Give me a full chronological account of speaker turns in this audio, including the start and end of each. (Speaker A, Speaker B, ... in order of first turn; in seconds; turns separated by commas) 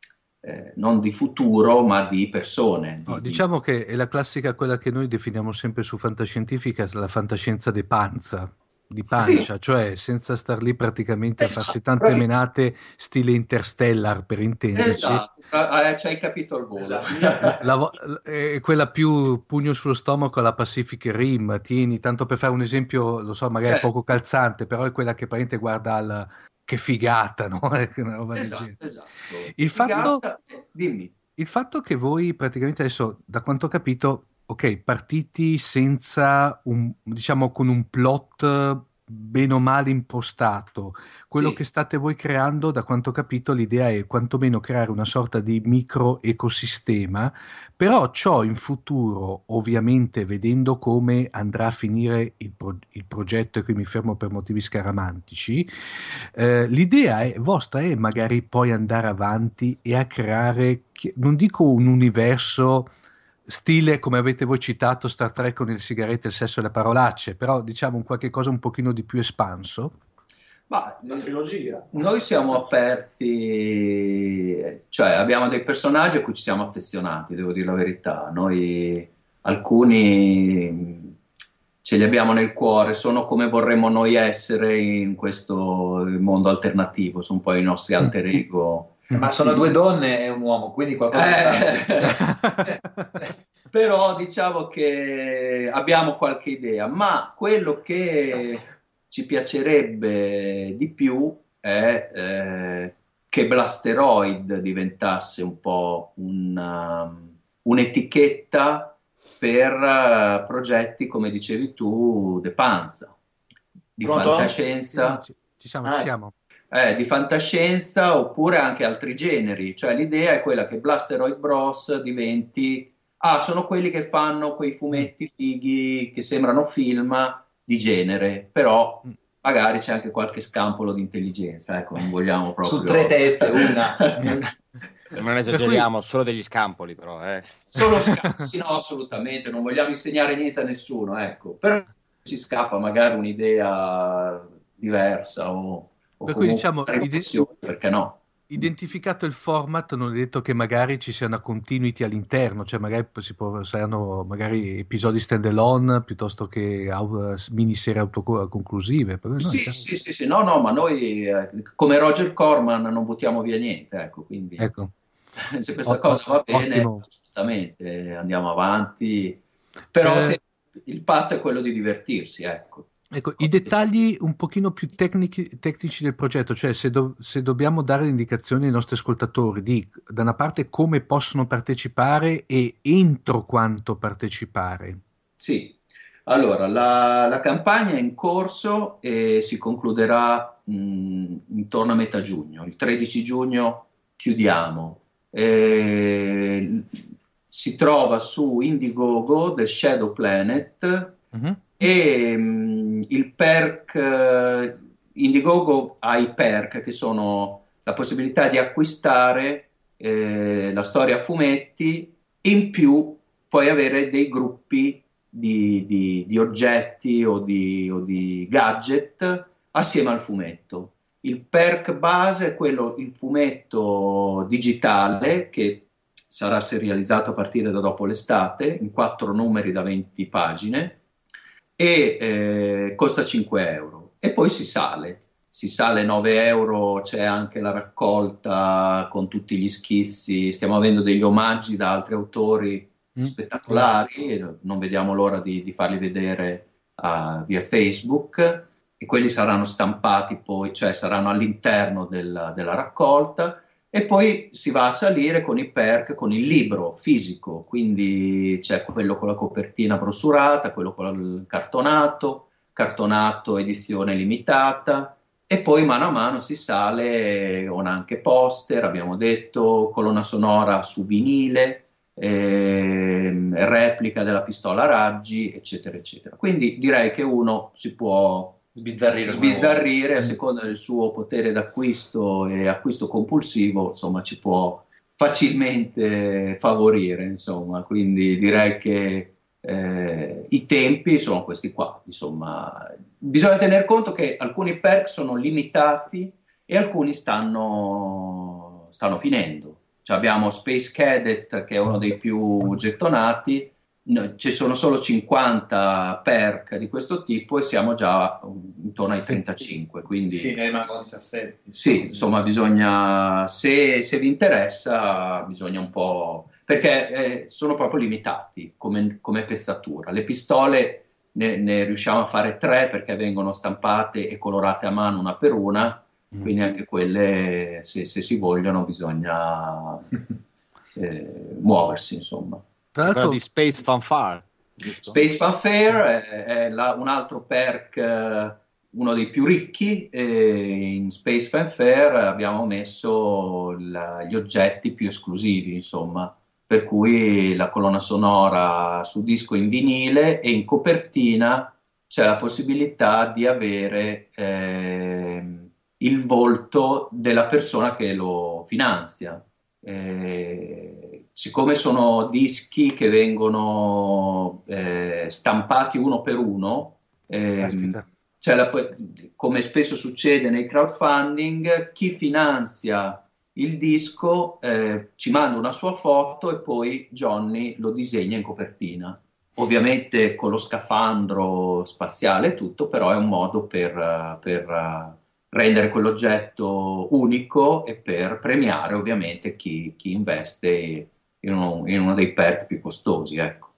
Speaker A: 0.4-3.4, Speaker B: 3.1-15.3, Speaker A: 9.2-9.5, Speaker A: 14.8-17.6, Speaker C: 16.8-17.6, Speaker B: 17.6-28.8, Speaker A: 23.6-23.9, Speaker A: 28.4-31.1, Speaker B: 29.5-30.2, Speaker B: 31.4-55.7, Speaker A: 41.3-41.6, Speaker B: 56.4-62.9, Speaker B: 63.5-69.9, Speaker A: 70.7-71.3, Speaker C: 71.1-71.9, Speaker A: 71.9-81.2, Speaker A: 81.8-89.1, Speaker B: 89.1-89.6, Speaker D: 89.2-92.2, Speaker A: 91.1-92.2, Speaker B: 92.1-93.1, Speaker A: 93.7-113.2, Speaker A: 114.0-115.2, Speaker C: 114.0-114.5, Speaker B: 114.9-116.3, Speaker A: 116.7-134.3, Speaker D: 132.6-134.5, Speaker E: 135.2-137.6, Speaker B: 135.5-135.9, Speaker A: 137.7-148.2, Speaker B: 146.2-147.5, Speaker B: 148.5-159.9, Speaker A: 159.4-164.7, Speaker B: 164.6-164.9, Speaker A: 165.4-173.8, Speaker B: 165.9-167.0, Speaker B: 170.0-170.4, Speaker B: 173.1-185.0, Speaker A: 185.4-201.2, Speaker B: 201.3-201.6, Speaker A: 201.8-231.0, Speaker A: 231.8-278.6, Speaker B: 243.2-243.9, Speaker D: 278.8-279.9, Speaker A: 279.2-310.6, Speaker D: 310.3-312.4, Speaker A: 311.8-330.1, Speaker A: 331.0-332.6, Speaker B: 332.9-333.4, Speaker E: 333.0-335.2, Speaker A: 335.1-393.7, Speaker B: 367.6-368.1